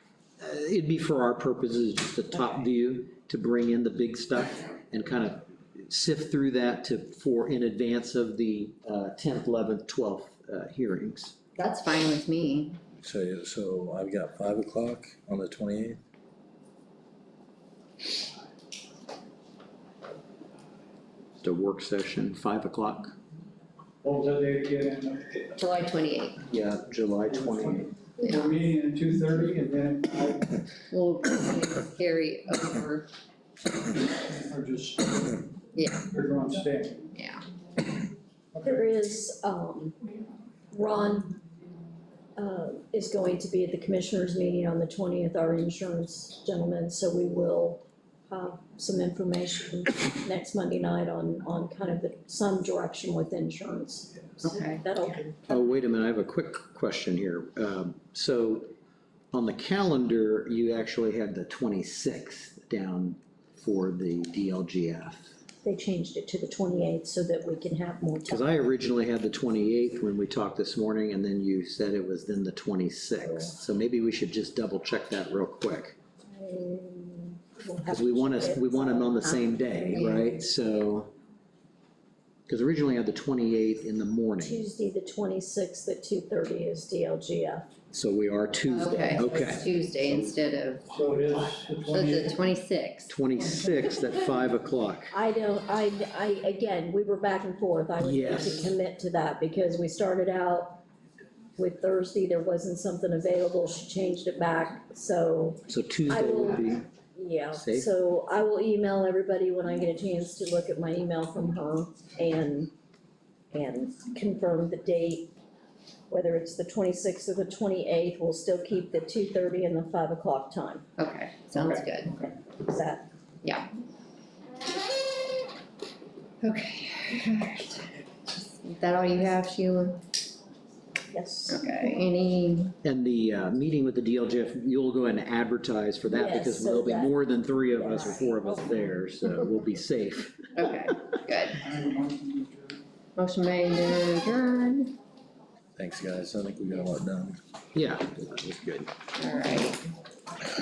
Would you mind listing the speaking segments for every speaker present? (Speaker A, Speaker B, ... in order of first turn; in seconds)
Speaker A: 0.4-11.4, 21.4-23.1, 26.5-27.9, 55.4-58.7, 59.3-65.4, 68.3-76.0, 77.9-81.1, 82.5-84.6, 87.9-89.6, 93.1-95.1, 98.0-98.7, 105.7-106.9, 107.5-107.9, 132.8-140.4, 147.8-148.9
Speaker B: 11.6-12.8, 25.6-26.4, 30.9-33.1, 35.8-36.1, 37.1-37.4, 54.4-54.9, 79.9-80.3, 88.7-90.9, 91.9-93.2, 121.0-122.2, 123.4-123.7, 126.4-130.0, 131.5-132.8, 140.6-141.7, 143.2-145.0, 149.2-149.9
Speaker C: 13.0-16.0, 145.8-147.4
Speaker D: 24.0-25.5, 27.3-30.6, 34.1-35.4, 36.1-37.0, 38.6-38.8, 90.9-92.4, 141.6-142.8
Speaker E: 38.6-40.0, 40.7-41.4, 42.4-55.4, 65.6-68.6, 76.3-80.1, 84.4-87.7, 95.1-100.8, 101.6-112.7, 113.5-115.3, 116.1-120.8, 122.1-123.1, 131.1-131.6, 136.1-137.2, 137.7-138.7